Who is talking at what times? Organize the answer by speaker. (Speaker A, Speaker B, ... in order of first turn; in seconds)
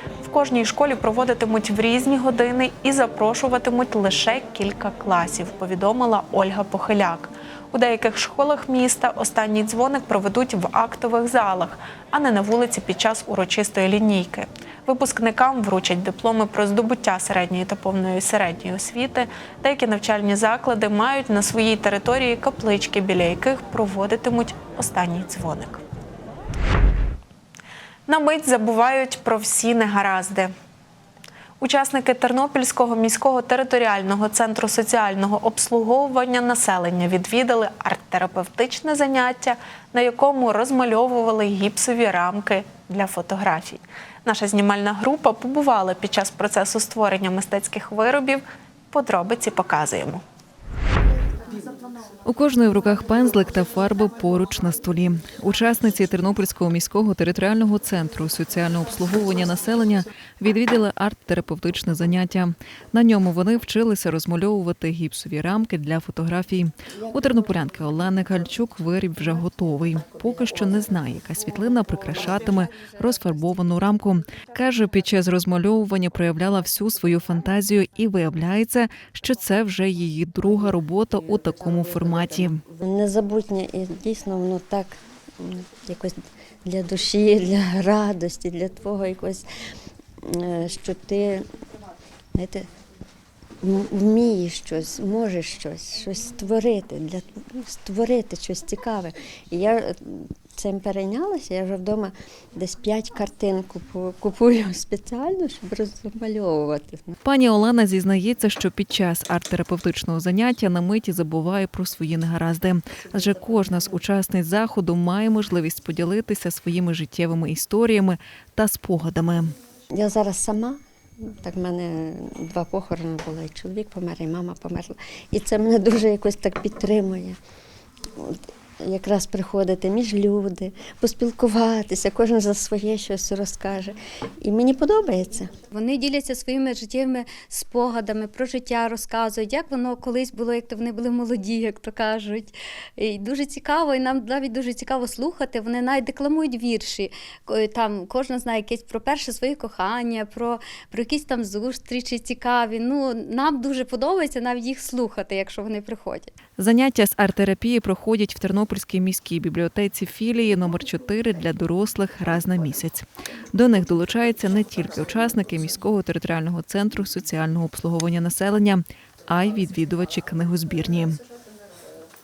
Speaker A: 0.2-25.8, 28.1-30.5, 31.6-50.2
Speaker B: 52.2-82.6, 107.2-119.5, 156.6-171.2
Speaker C: 81.5-89.5, 90.2-91.5, 92.3-92.7, 93.6-107.1, 119.9-127.4, 128.2-135.5
Speaker D: 135.7-156.3